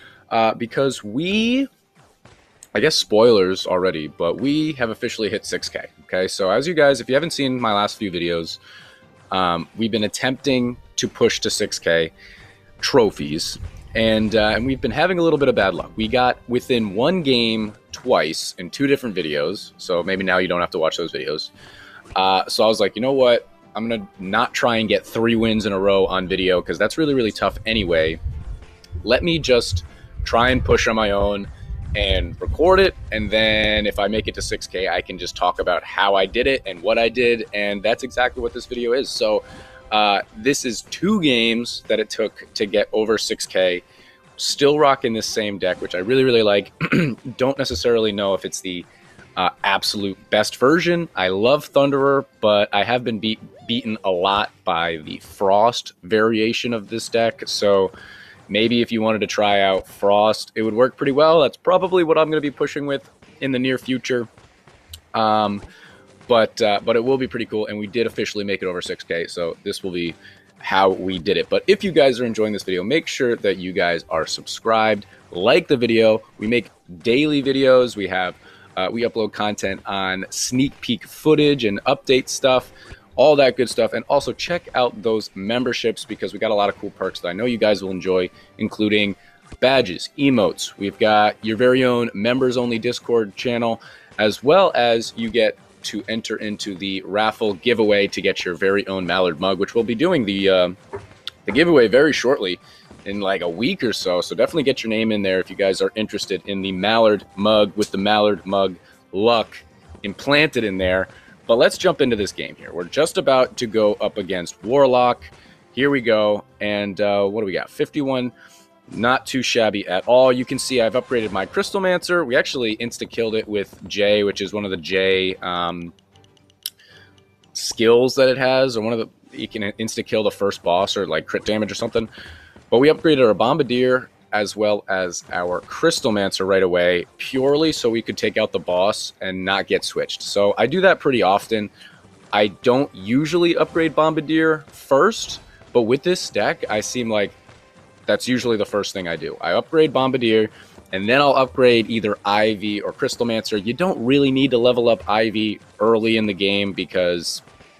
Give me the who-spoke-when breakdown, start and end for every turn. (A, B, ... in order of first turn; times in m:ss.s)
0:00.3-0:01.7 A
0:02.8-0:08.6 A
0:09.3-0:12.1 A
0:12.8-0:21.5 A
0:22.2-0:28.2 A
0:29.0-0:43.8 A
0:44.4-0:57.9 A
0:58.5-1:04.3 A
1:05.1-1:05.6 A
1:06.3-1:40.8 A
1:41.5-1:58.3 A
1:58.9-2:06.0 A
2:07.5-2:12.1 A
2:12.7-2:21.7 A
2:22.3-2:27.4 A
2:28.1-2:37.4 A